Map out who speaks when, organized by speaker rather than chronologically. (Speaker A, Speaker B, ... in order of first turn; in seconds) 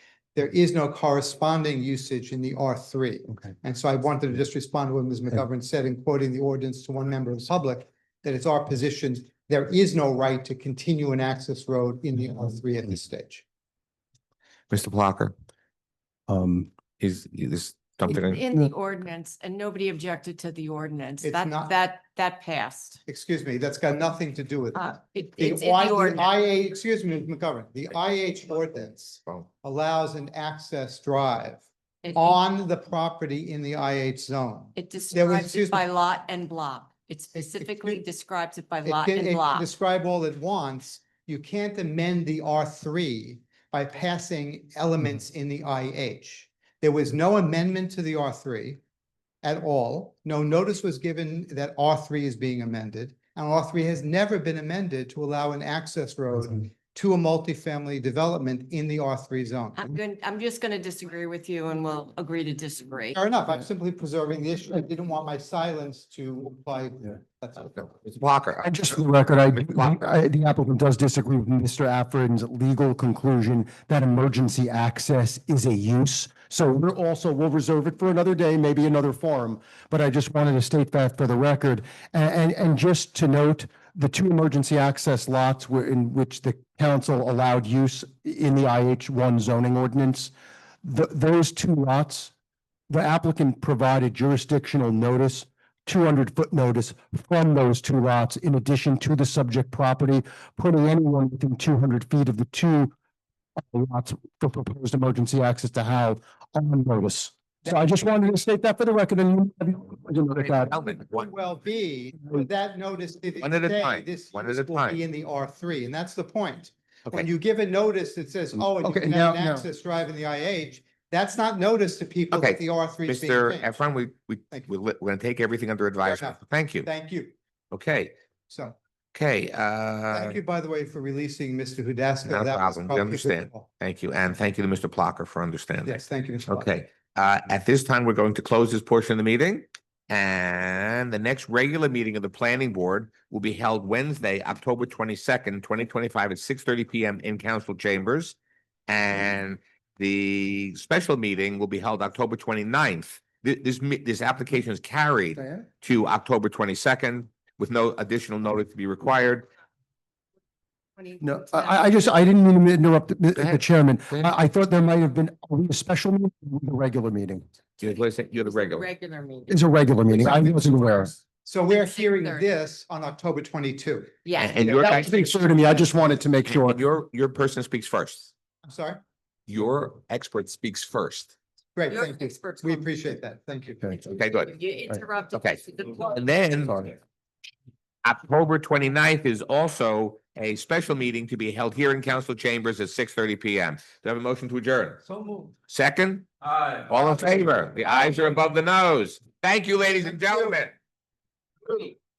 Speaker A: 0.3-13.4, 21.2-21.7, 23.1-35.9, 37.3-38.0, 38.9-48.8, 49.4-59.9, 63.1-67.9, 111.1-123.7, 126.0-127.3, 128.5-128.8, 130.1-133.7, 135.8-136.7, 171.4-174.9, 178.6-179.0, 181.8-184.0
Speaker B: 14.7-15.3, 17.0-18.4, 67.7-68.8, 69.5-70.0, 110.4-111.3, 113.4-115.0, 122.3-126.9, 127.7-128.2, 129.1-130.4, 132.2-148.4, 148.9-159.5, 163.3-164.3, 167.8-168.9, 174.4-175.3, 176.5-178.3, 179.5-181.3, 184.1-184.6, 185.3-186.9, 188.0-195.0, 195.7-196.3, 196.9-200.7
Speaker C: 16.3-16.7, 68.6-90.3, 90.8-92.3, 92.9-102.9, 103.6-110.8, 118.8-119.7, 155.4-155.7, 161.2-167.5, 169.5-171.1, 174.8-176.8
Speaker D: 18.1-23.0, 24.8-26.3, 32.0-32.4, 34.8-39.7, 59.8-63.2, 161.0-162.0, 168.5-169.6, 171.7-172.5, 174.2-175.1, 181.9-182.9, 184.0-186.3